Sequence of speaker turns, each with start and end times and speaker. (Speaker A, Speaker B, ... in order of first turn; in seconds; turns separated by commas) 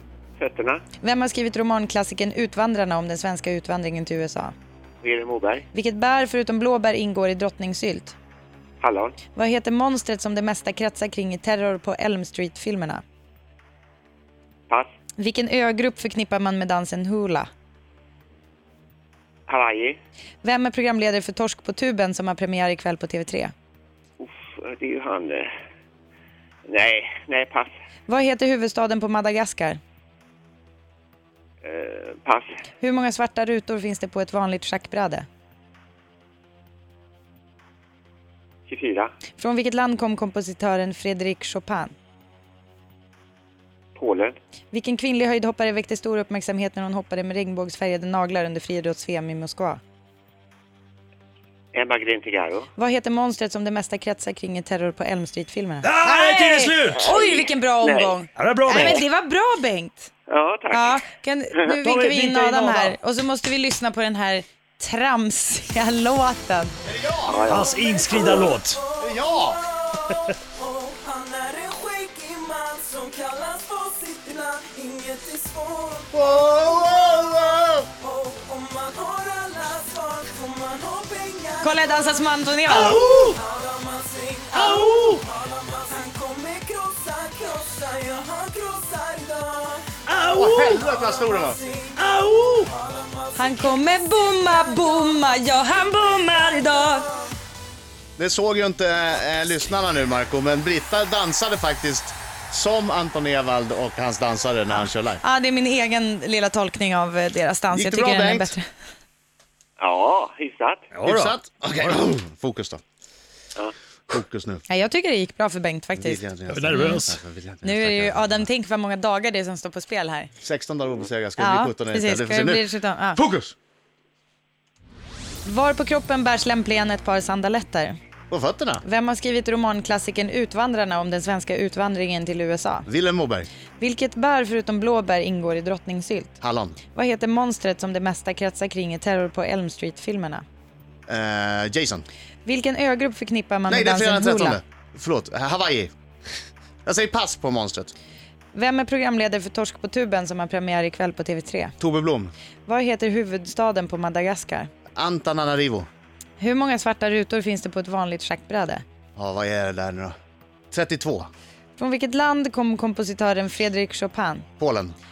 Speaker A: 0.4-0.8, Speaker B: 1.0-4.5, Speaker A: 5.0-5.6, Speaker B: 5.7-8.2, Speaker A: 8.8-9.2, Speaker B: 9.3-13.0, Speaker B: 15.2-17.5, Speaker A: 19.5-20.0, Speaker B: 20.4-23.5, Speaker A: 24.2-25.5, Speaker A: 26.7-27.7, Speaker B: 28.1-29.8, Speaker A: 31.6-32.5, Speaker B: 32.8-35.3, Speaker A: 38.7-39.1, Speaker B: 39.4-41.9, Speaker A: 44.0-44.4, Speaker B: 44.7-49.8, Speaker A: 51.7-52.7, Speaker B: 52.8-60.1, Speaker C: 55.8-57.1, Speaker A: 57.0-58.1, Speaker C: 58.3-59.0, Speaker A: 58.7-59.0, Speaker A: 60.3-61.0, Speaker B: 60.7-66.7, Speaker C: 61.8-63.0, Speaker D: 66.8-67.5, Speaker A: 67.3-68.5, Speaker C: 67.4-68.8, Speaker E: 67.7-68.1, Speaker E: 68.7-76.1, Speaker D: 69.0-69.6, Speaker D: 76.1-77.9, Speaker E: 78.0-82.2, Speaker B: 81.6-83.0, Speaker C: 82.6-83.4, Speaker E: 83.0-89.8, Speaker C: 84.5-85.2, Speaker C: 90.0-90.8, Speaker D: 90.3-91.6, Speaker E: 90.9-91.9, Speaker C: 92.0-92.7, Speaker E: 92.7-93.7, Speaker B: 93.3-97.1, Speaker D: 98.2-105.2, Speaker B: 105.2-108.6, Speaker D: 107.7-108.5, Speaker A: 109.8-110.9, Speaker C: 110.9-112.0, Speaker D: 111.0-112.8, Speaker D: 114.1-114.6, Speaker B: 114.7-117.0, Speaker D: 115.9-118.5, Speaker C: 116.5-117.2, Speaker B: 117.6-120.3, Speaker D: 120.4-123.5, Speaker B: 121.4-123.2, Speaker B: 125.4-128.0, Speaker D: 128.3-128.8, Speaker B: 128.8-132.9, Speaker D: 132.9-133.5, Speaker B: 133.8-136.4, Speaker D: 136.4-136.8, Speaker B: 136.9-140.4, Speaker D: 141.1-142.1, Speaker B: 142.4-144.6, Speaker D: 143.7-145.9, Speaker D: 146.8-147.9, Speaker B: 148.5-151.7, Speaker D: 151.8-152.3, Speaker B: 152.6-154.7, Speaker D: 155.0-155.9, Speaker B: 156.4-158.8, Speaker D: 159.2-160.1, Speaker D: 160.7-161.3, Speaker B: 161.8-164.4, Speaker D: 164.6-164.9